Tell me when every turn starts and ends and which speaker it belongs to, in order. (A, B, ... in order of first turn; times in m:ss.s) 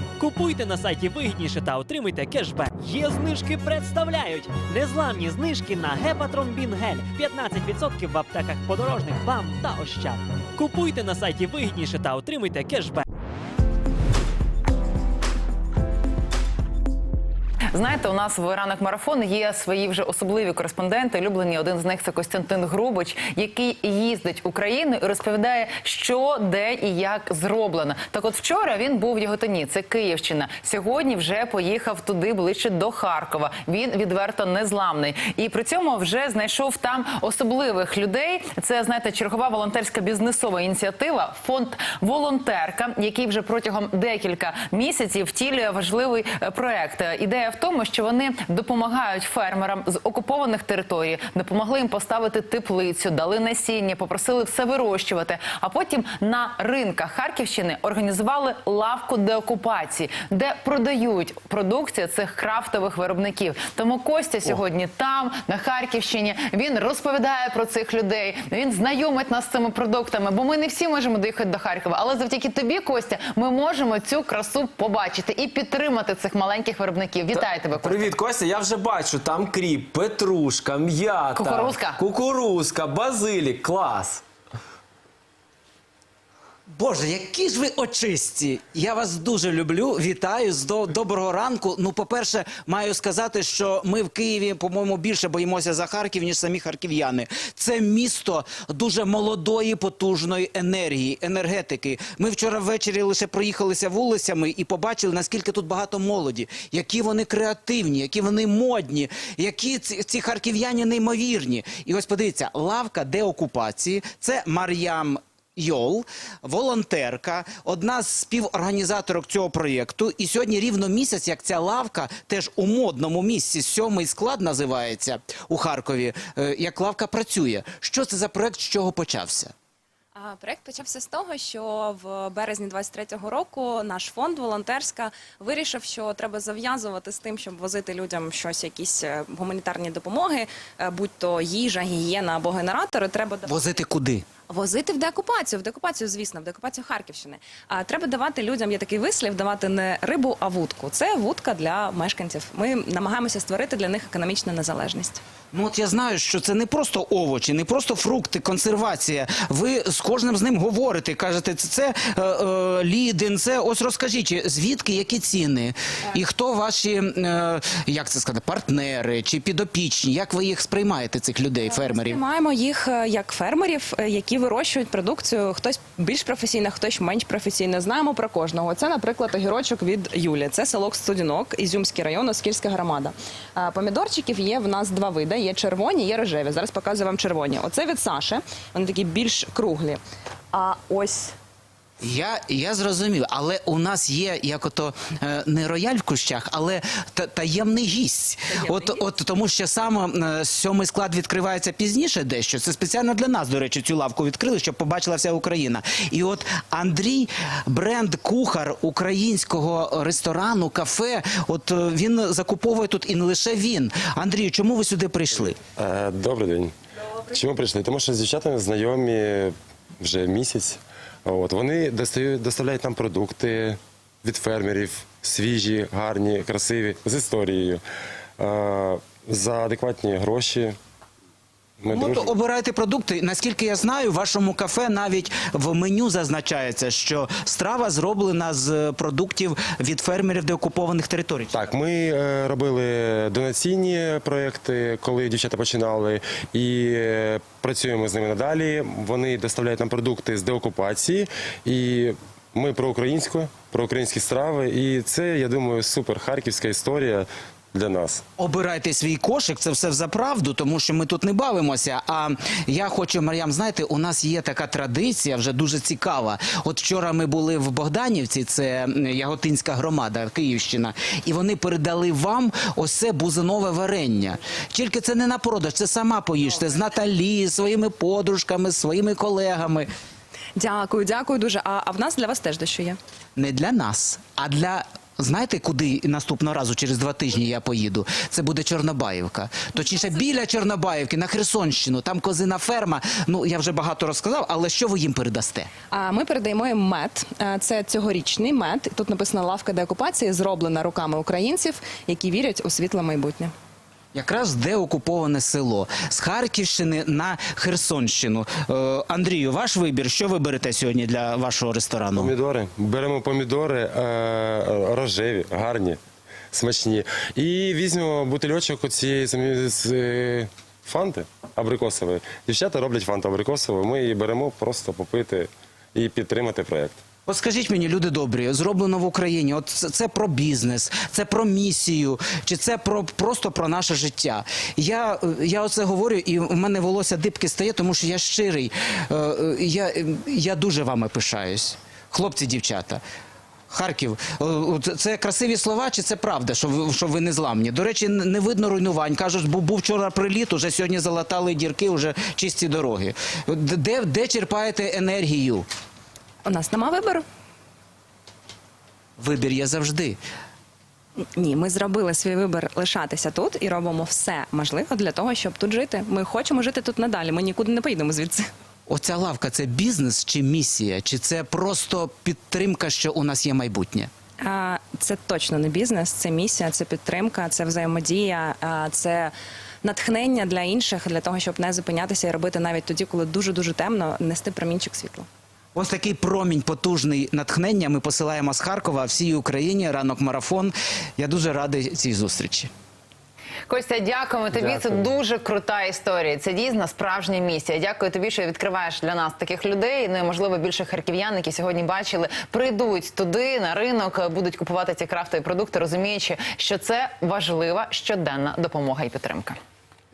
0:00.2-0:13.0 A
0:17.7-1:18.1 B
1:17.3-1:24.2 C
1:21.3-1:22.0 B
1:26.7-2:09.5 D
2:10.1-2:23.6 E
2:23.4-2:24.3 D
2:24.4-2:35.2 E
2:35.5-2:52.2 D
2:51.7-3:10.0 E
3:10.5-3:11.3 E
3:12.0-3:35.6 D
3:18.6-3:19.0 E
3:35.7-3:36.7 F
3:37.3-3:47.8 F
3:48.4-3:50.8 F
3:51.8-3:52.3 F
3:51.9-4:01.6 D
4:01.5-4:18.2 F
4:18.4-4:39.9 D
4:40.6-4:43.0 E
4:43.4-4:55.7 D
4:55.9-5:03.5 E
5:04.1-5:12.3 D
5:12.1-5:16.0 F
5:16.5-5:27.0 F
5:27.3-5:43.0 D
5:43.7-5:55.7 D
5:56.4-5:57.2 E
5:59.2-6:00.2 D
6:01.4-6:08.4 E
6:08.9-6:14.1 D
6:14.4-6:25.3 E
6:25.7-6:32.7 D
6:33.7-6:49.6 B
6:34.5-6:35.1 C